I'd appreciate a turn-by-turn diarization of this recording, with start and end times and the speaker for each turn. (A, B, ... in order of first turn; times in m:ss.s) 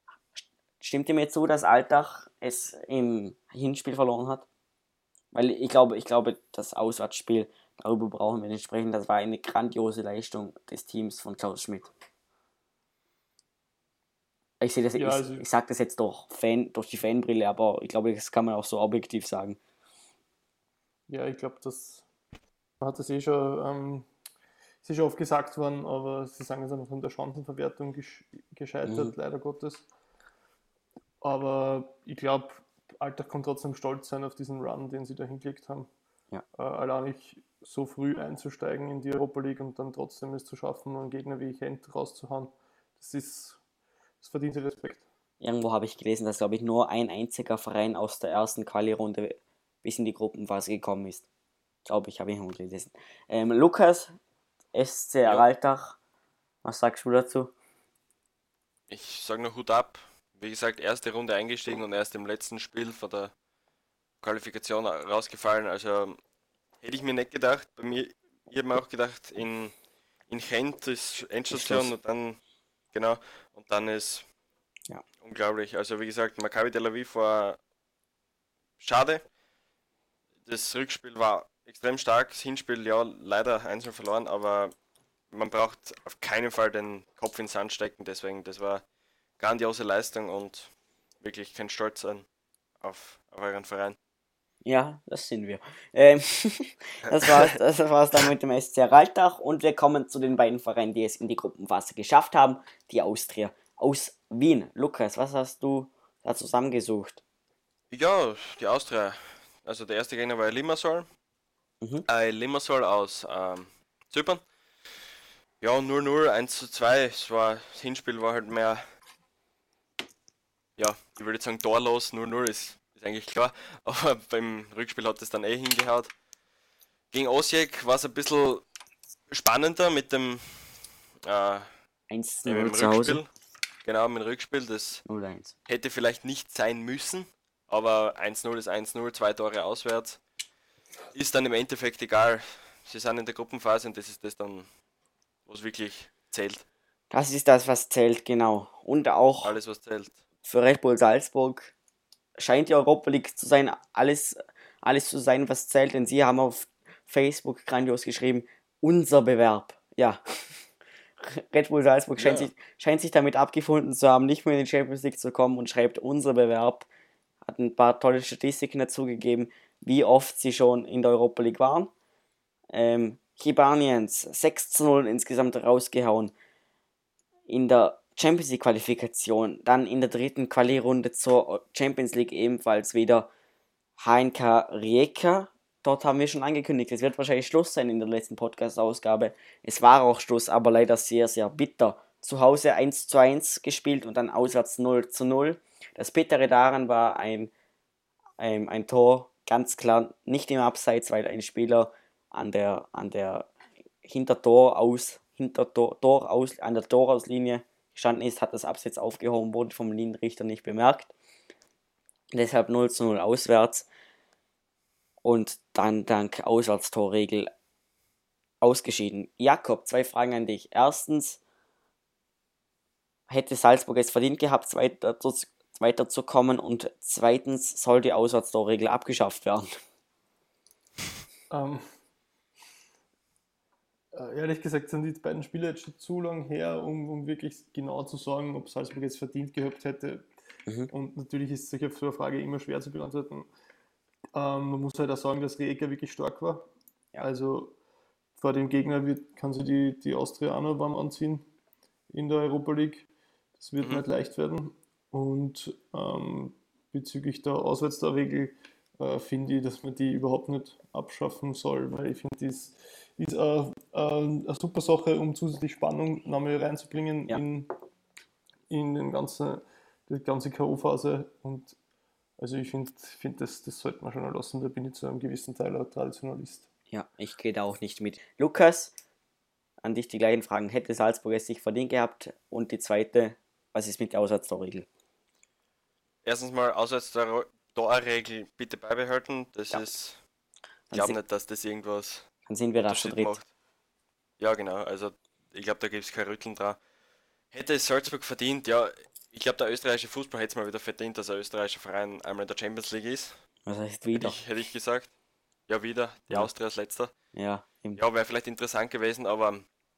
0:00.4-0:04.4 A
0:05.3-0:11.9 A
0:14.6-0:19.6 A
0:15.0-0:15.4 B
0:21.1-0:22.0 B
0:22.8-0:24.1 B
0:24.8-0:29.9 B
0:28.8-0:29.1 A
0:31.2-0:35.9 B
0:36.6-0:43.6 B
0:44.2-0:45.0 B
0:45.4-0:51.2 A
0:51.8-0:54.1 A
0:54.7-0:56.0 A
0:56.6-0:57.5 A
0:58.9-1:03.3 C
1:04.2-1:06.2 C
1:06.8-1:09.7 C
1:10.3-1:12.4 C
1:11.5-1:11.9 A
1:12.9-1:14.2 C
1:15.2-1:17.6 C
1:18.8-1:19.2 C
1:20.4-1:24.7 C
1:25.3-1:28.8 C
1:29.4-1:30.7 C
1:31.2-1:32.2 C
1:32.8-1:34.0 C
1:34.6-1:47.2 A
1:47.9-1:51.1 C
1:52.1-1:54.4 C
1:55.6-1:58.8 C
2:00.8-2:06.1 C
2:07.1-2:08.6 C
2:09.3-2:11.7 C
2:12.1-2:13.2 A
2:12.4-2:13.3 C
2:13.8-2:15.0 C
2:15.0-2:15.5 A
2:15.7-2:20.2 C
2:21.1-2:24.7 C
2:25.5-2:26.6 C
2:27.1-2:29.5 A
2:29.4-2:30.2 C
2:30.4-2:31.7 A
2:32.4-2:40.2 A
2:41.2-2:46.9 A
2:42.2-2:42.5 C
2:47.4-2:51.9 A
2:52.7-2:56.3 A
2:57.5-3:03.3 A
3:04.0-3:17.5 A
3:18.4-3:23.5 A
3:24.0-3:31.1 A
3:32.3-3:33.9 A
3:35.2-3:37.5 A
3:38.6-3:41.4 A
3:43.3-3:49.7 A
3:51.5-3:51.9 B
3:54.1-4:00.3 B
4:00.9-4:03.5 B
4:04.3-4:06.7 B
4:07.2-4:07.7 B
4:08.4-4:11.4 B
4:12.1-4:27.7 B
4:28.7-4:31.8 B
4:32.4-4:36.7 B
4:36.9-4:38.9 A
4:39.8-4:44.8 A
4:46.2-4:50.2 C
4:50.9-4:51.2 A
4:50.9-4:52.3 C
4:52.5-4:53.4 A
4:52.8-4:53.5 C
4:54.4-4:56.8 C
4:57.5-5:03.4 C
5:03.7-5:04.4 A
5:04.1-5:05.1 C
5:05.7-5:07.1 C
5:07.3-5:08.0 A
5:08.0-5:09.6 C